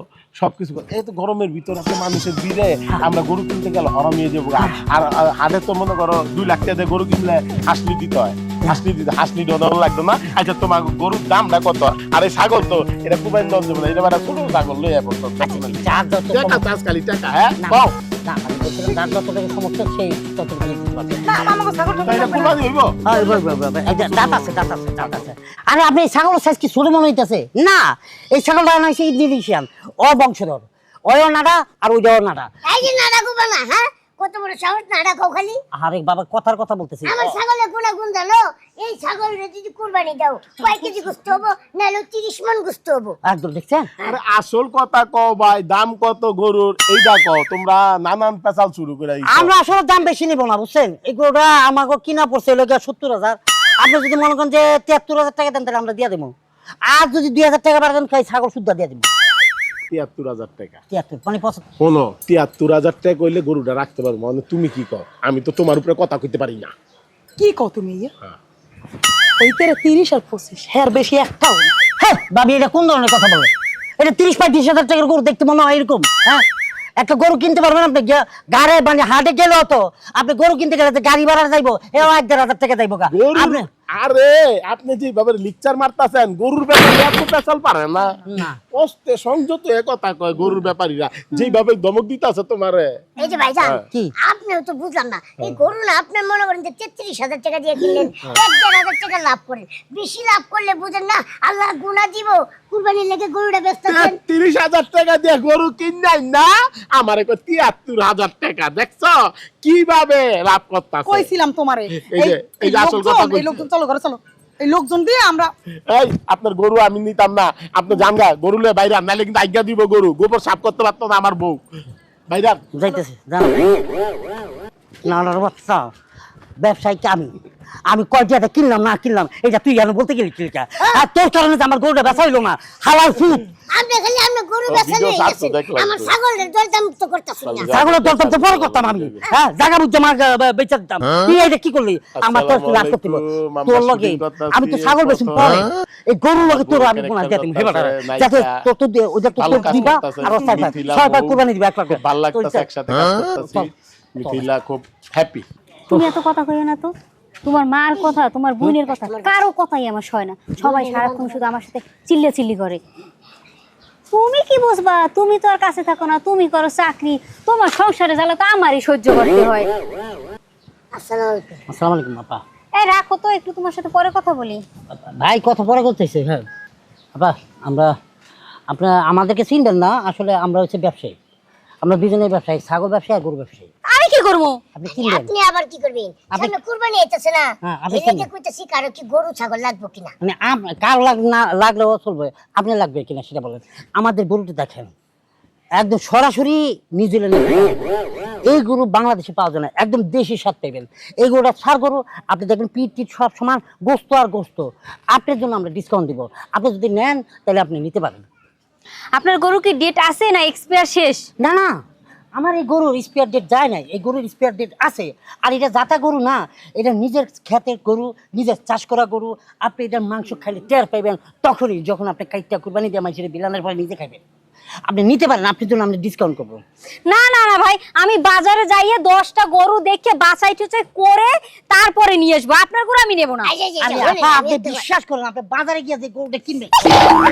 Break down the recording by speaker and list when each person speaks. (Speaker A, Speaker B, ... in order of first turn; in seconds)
Speaker A: 0.4-17.9, 22.0-23.1, 24.0-24.6, 44.0-49.5, 59.9-60.8, 61.8-66.7, 83.1-88.2, 88.7-93.1, 93.6-93.8, 95.4-95.6, 103.9-111.3, 111.9-113.6, 115.9-121.6, 122.3-122.6, 134.7-136.2, 137.4-139.2, 142.2-145.7, 146.4-148.7, 149.3-155.4
Speaker B: 15.4-16.6, 17.6-21.5, 23.0-32.5, 35.7-37.2, 43.2-43.9, 49.3-56.3, 56.9-59.1, 60.9-61.6, 72.0-76.4, 77.0-83.7, 88.2-88.6, 122.7-123.8, 125.0-125.9, 126.6-127.3, 127.9-133.5, 137.6-152.7, 153.3-153.7, 154.2-154.5, 171.7-172.4, 174.9-176.5, 177.1-177.9, 178.7-181.2, 181.8-183.7, 184.7-185.3, 187.6-188.3, 190.2-194.9, 195.8-197.8, 198.5-208.3, 211.4-211.8, 212.3-224.2, 224.9-226.6, 233.8-236.9
Speaker C: 18.8-19.1, 21.2-22.6, 67.4-68.1, 69.4-71.8, 111.0-115.5
Speaker D: 32.7-35.5, 37.0-43.2, 93.2-104.2, 133.7-137.8, 157.9-159.4, 160.6-161.5, 170.9-171.6, 184.9-190.1, 233.4-234.8
Speaker E: 155.9-156.9, 157.4-162.8, 164.1-169.7, 172.8-174.6, 183.8-184.6, 209.1-211.3, 227.1-233.5